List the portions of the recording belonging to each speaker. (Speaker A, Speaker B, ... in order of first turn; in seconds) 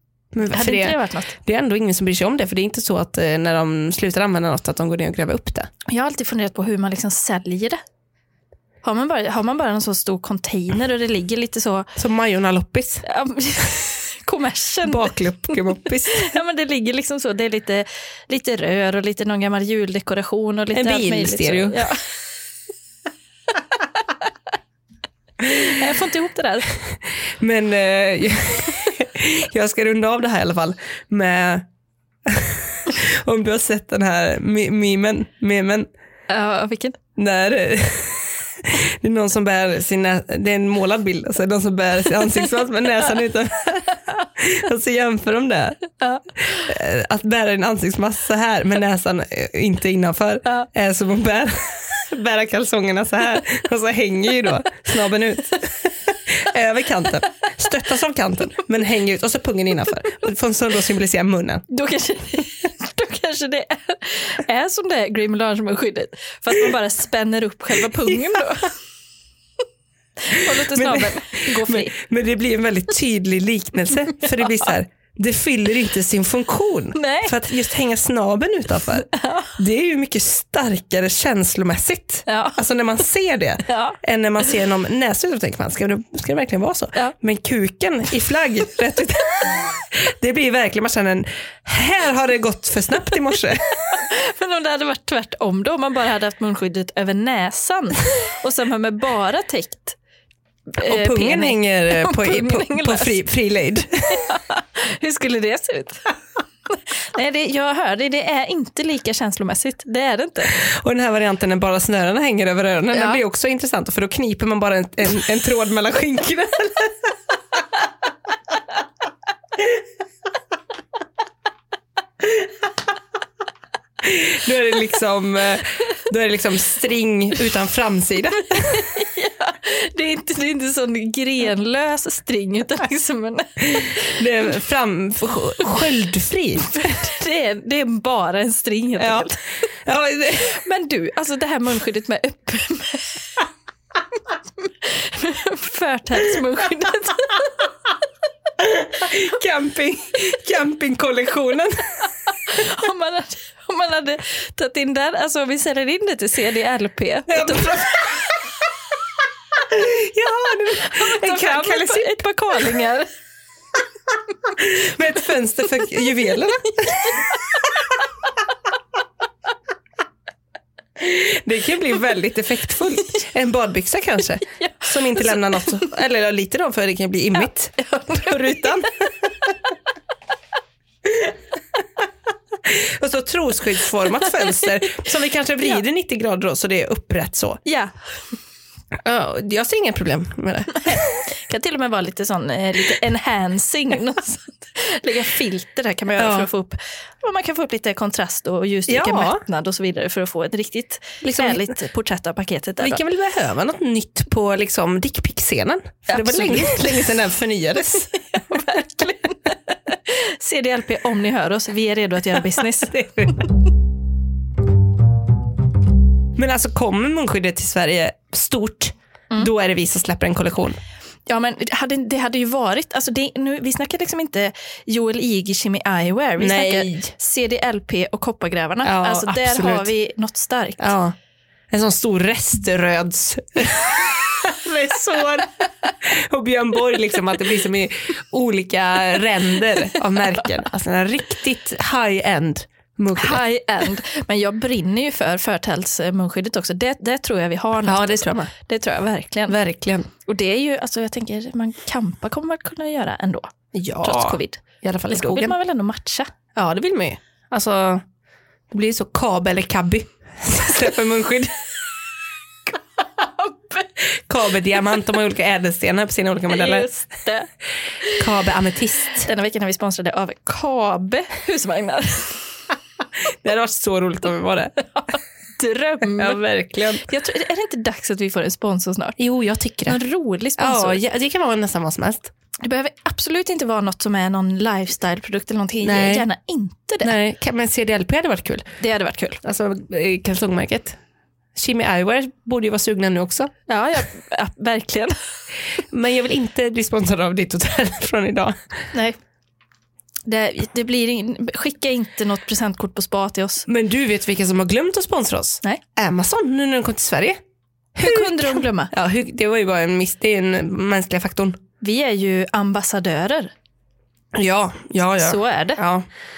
Speaker A: 0.3-5.7, 11.9-13.0, 14.8-16.3, 20.7-21.9, 27.2-31.7, 32.2-35.9, 37.1-45.9, 46.4-61.6, 70.3-94.0, 100.8-104.2, 110.5-117.1, 124.0-128.9, 133.8-136.8, 139.0-140.6, 148.6-152.1, 157.3-158.3, 159.5-162.2, 164.5-167.2, 171.0-178.9, 181.0-181.3, 182.6-187.6, 189.0-191.2, 196.2-196.5, 198.9-199.4, 201.2-201.7, 202.8-208.1, 212.8-213.4, 216.3-220.8, 226.4-227.1, 228.8-229.9, 230.8-231.1, 231.7-243.4, 247.8-248.5, 249.5-250.1, 253.7-255.6, 256.5-258.0, 258.7-261.6, 264.3-266.9, 268.2-269.3, 273.2-274.8, 276.0-277.1, 279.2-280.0, 280.6-282.3, 285.8-286.3, 287.0-288.7, 289.4-291.0, 291.6-293.5, 295.9-298.6, 303.6-307.4, 307.9-311.6, 314.3-316.1
Speaker B: 0.5-1.3, 5.9-7.8, 8.8-11.9, 13.0-22.0, 25.4-26.7, 36.3-37.0, 46.0-46.7, 61.7-68.7, 70.3-71.9, 76.9-77.4, 79.1-79.5, 82.3-82.6, 83.7-84.0, 93.8-100.0, 100.7-103.2, 104.1-106.2, 106.7-110.5, 112.9-113.2, 128.6-134.2, 136.7-139.4, 140.4-143.4, 144.6-147.6, 152.3-158.4, 160.7-163.1, 166.8-167.2, 174.6-175.7, 177.4-178.9, 187.6-187.9, 190.9-203.0, 206.1-207.1, 208.1-213.4, 221.3-230.9, 243.1-249.6, 250.2-256.3, 262.7-263.9, 266.5-267.5, 269.2-272.5, 274.9-276.4, 277.0-279.2, 279.9-281.0, 282.6-287.1, 288.8-289.4, 293.7-295.2, 300.3-303.6, 308.0-308.9, 311.8-313.5, 315.2-315.8